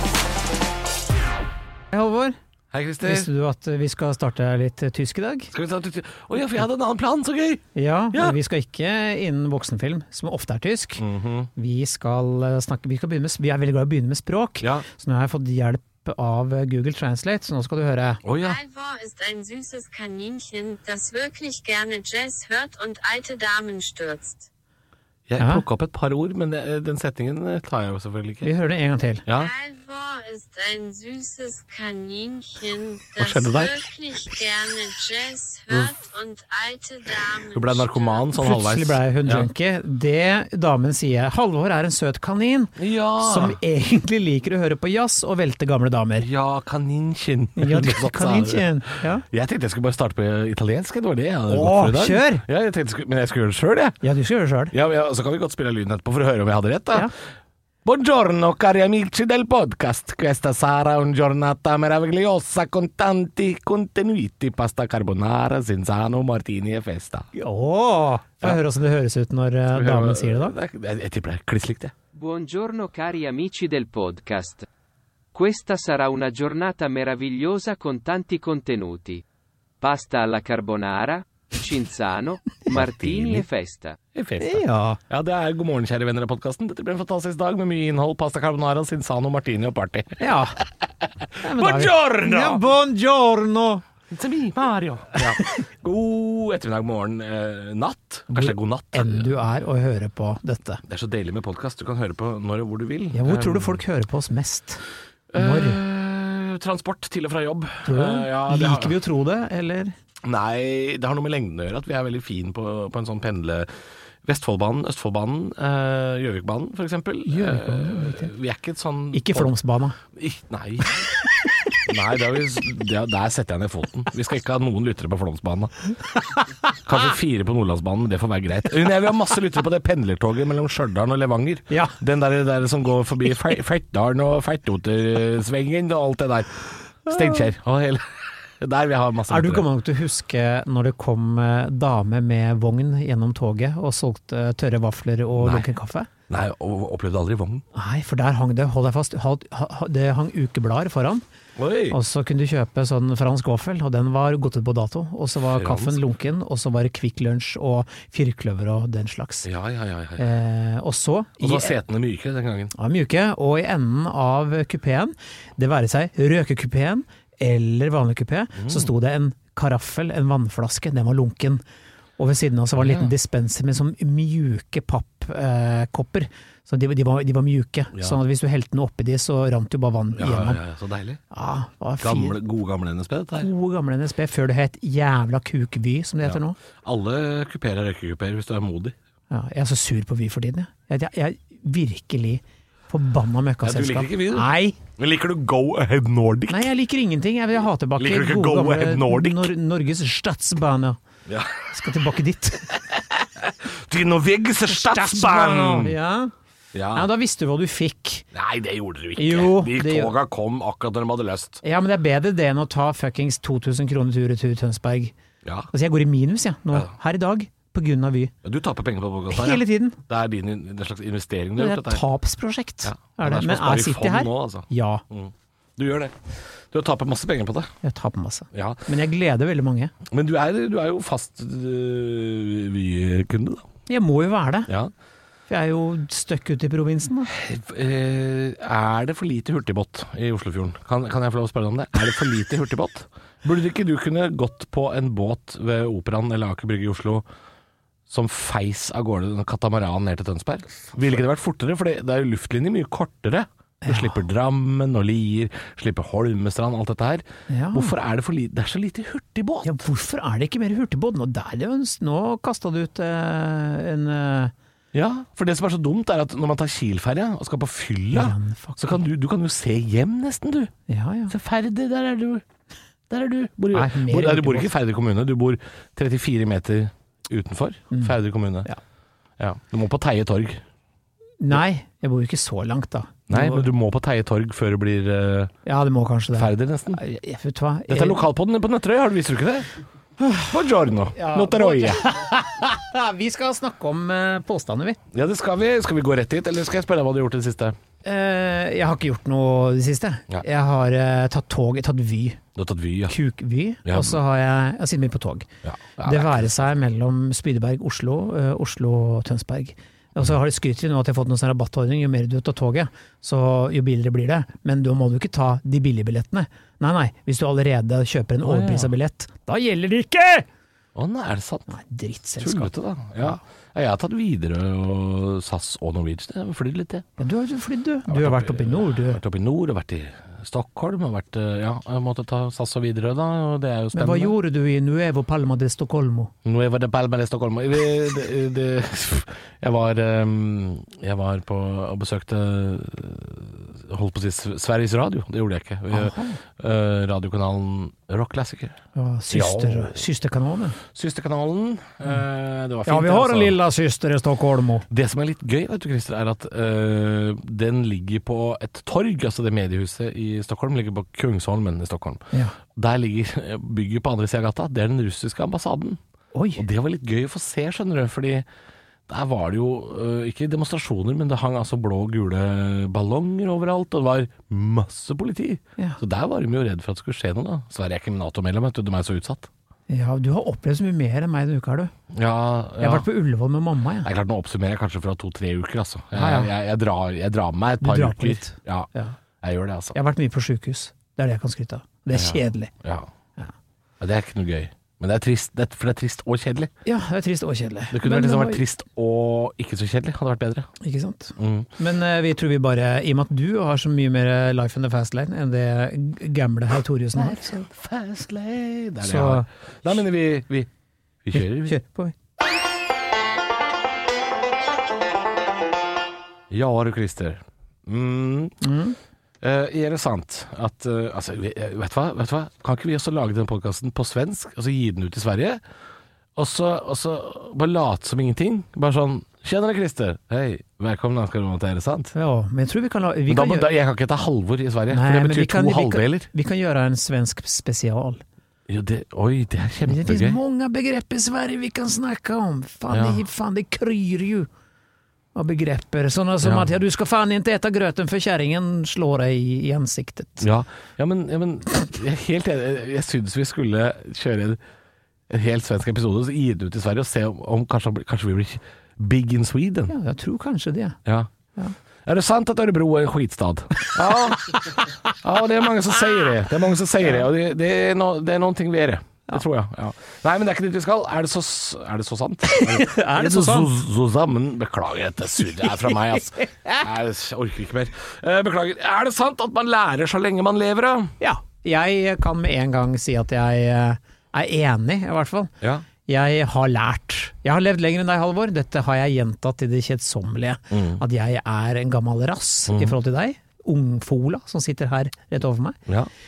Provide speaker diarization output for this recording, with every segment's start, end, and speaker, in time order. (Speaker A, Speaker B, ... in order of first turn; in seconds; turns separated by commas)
Speaker A: 1.9-2.4, Speaker B: 2.7-3.3, Speaker A: 3.0-5.5, Speaker B: 5.5-8.4, Speaker A: 7.8-11.0, Speaker B: 11.0-11.5, Speaker A: 11.6-18.2, Speaker B: 18.2-18.6, Speaker C: 18.4-24.5, Speaker B: 25.3-28.5, Speaker A: 25.4-25.6, Speaker A: 28.4-29.2, Speaker B: 29.3-29.5, Speaker C: 29.3-38.2, Speaker B: 33.2-33.8, Speaker B: 37.5-39.5, Speaker A: 38.4-46.3, Speaker B: 42.8-43.6, Speaker B: 46.2-54.0, Speaker A: 47.6-49.2, Speaker A: 51.5-52.4, Speaker A: 54.0-54.7, Speaker B: 54.7-57.1, Speaker B: 57.9-67.3, Speaker A: 67.3-70.5, Speaker B: 69.7-71.9, Speaker D: 72.2-74.7, Speaker D: 75.3-79.2, Speaker D: 79.8-84.0, Speaker B: 82.7-83.5, Speaker B: 84.1-92.6, Speaker A: 84.4-85.0, Speaker A: 90.2-90.6, Speaker A: 91.4-93.8, Speaker B: 94.1-99.3, Speaker A: 95.2-95.6, Speaker A: 98.3-100.8, Speaker B: 100.8-103.8, Speaker A: 103.1-104.8, Speaker B: 105.3-109.0, Speaker A: 105.3-105.8, Speaker A: 107.8-109.9, Speaker B: 110.2-113.7, Speaker B: 114.2-119.5, Speaker A: 117.3-118.3, Speaker A: 119.1-120.0, Speaker B: 120.1-121.1, Speaker B: 121.8-125.7, Speaker B: 126.8-139.7, Speaker A: 131.7-132.0, Speaker A: 137.1-137.5, Speaker A: 139.3-146.1, Speaker B: 145.4-145.7, Speaker B: 146.3-147.7, Speaker A: 147.7-151.2, Speaker B: 151.6-152.0, Speaker A: 151.9-159.5, Speaker B: 155.5-156.0, Speaker B: 159.4-160.3, Speaker A: 160.2-161.8, Speaker B: 161.4-162.7, Speaker A: 162.8-171.6, Speaker B: 168.6-168.9, Speaker A: 172.2-180.6, Speaker B: 172.8-173.1, Speaker B: 180.2-181.2, Speaker A: 181.3-182.4, Speaker B: 182.0-183.5, Speaker A: 183.4-186.6, Speaker B: 186.2-189.0, Speaker A: 189.3-194.8, Speaker B: 193.6-196.7, Speaker A: 196.5-201.0, Speaker B: 198.0-199.5, Speaker B: 201.3-201.8, Speaker A: 201.7-202.8, Speaker B: 202.8-205.9, Speaker A: 204.7-206.3, Speaker B: 206.7-207.1, Speaker A: 206.9-208.3, Speaker B: 208.3-211.6, Speaker A: 209.2-210.1, Speaker A: 211.6-215.1, Speaker B: 215.4-215.7, Speaker A: 215.7-218.3, Speaker B: 218.4-222.0, Speaker A: 219.3-220.0, Speaker A: 221.6-225.0, Speaker B: 222.8-227.7, Speaker A: 227.8-229.9, Speaker B: 228.5-228.8, Speaker B: 230.1-233.7, Speaker A: 233.9-234.7, Speaker A: 235.5-237.3, Speaker B: 237.3-247.2, Speaker B: 248.1-259.8, Speaker A: 253.8-254.2, Speaker A: 257.5-257.9, Speaker A: 259.6-264.5, Speaker B: 264.9-270.7, Speaker A: 268.1-269.0, Speaker A: 270.9-271.3, Speaker B: 271.3-272.4, Speaker B: 273.1-278.7, Speaker A: 273.7-274.7, Speaker A: 277.9-278.8, Speaker B: 279.4-280.6, Speaker A: 281.4-283.7, Speaker B: 283.3-285.5, Speaker A: 285.7-288.2, Speaker B: 286.3-287.0, Speaker B: 287.9-289.7, Speaker A: 290.2-290.5, Speaker B: 290.4-292.1, Speaker A: 291.1-295.0, Speaker B: 295.1-297.8, Speaker A: 298.0-302.4, Speaker B: 302.6-303.2, Speaker A: 303.1-305.5, Speaker B: 303.9-304.2, Speaker B: 305.6-306.7, Speaker A: 306.0-320.5, Speaker B: 318.4-318.9, Speaker B: 320.9-321.7, Speaker A: 321.7-323.4, Speaker B: 322.4-327.1, Speaker A: 327.2-329.2, Speaker B: 328.1-334.4, Speaker A: 333.9-336.3, Speaker B: 336.4-348.8, Speaker A: 345.9-346.4, Speaker A: 348.9-350.8, Speaker B: 349.3-350.0, Speaker B: 350.9-353.6, Speaker A: 352.9-354.9, Speaker B: 354.9-366.0, Speaker A: 366.3-366.6, Speaker B: 366.6-368.4, Speaker B: 369.1-379.5, Speaker A: 379.9-381.9, Speaker B: 382.1-383.1, Speaker A: 382.8-384.1, Speaker B: 384.0-388.9, Speaker A: 386.1-386.5, Speaker A: 387.8-389.2, Speaker B: 389.4-390.0, Speaker A: 389.9-392.7, Speaker B: 392.1-393.1, Speaker B: 394.0-396.7, Speaker A: 396.9-398.6, Speaker B: 397.9-400.7, Speaker A: 400.8-407.6, Speaker B: 401.4-401.7, Speaker B: 407.1-410.7, Speaker A: 409.0-409.5, Speaker B: 411.2-411.8, Speaker A: 411.4-412.1, Speaker B: 416.5-418.6, Speaker A: 418.6-419.0, Speaker B: 419.4-425.6, Speaker B: 426.4-432.1, Speaker A: 432.1-433.7, Speaker B: 433.3-436.3, Speaker A: 434.9-438.2, Speaker B: 438.7-440.4, Speaker A: 439.8-444.5, Speaker B: 442.9-443.2, Speaker A: 445.4-450.4, Speaker B: 446.4-446.7, Speaker B: 450.4-454.6, Speaker B: 455.3-459.9, Speaker A: 459.9-461.0, Speaker B: 461.1-461.3, Speaker B: 462.1-481.1, Speaker A: 463.8-464.9, Speaker A: 472.5-473.7, Speaker A: 475.6-476.8, Speaker A: 481.2-485.5, Speaker A: 486.1-495.8, Speaker B: 490.7-491.0, Speaker B: 492.7-493.0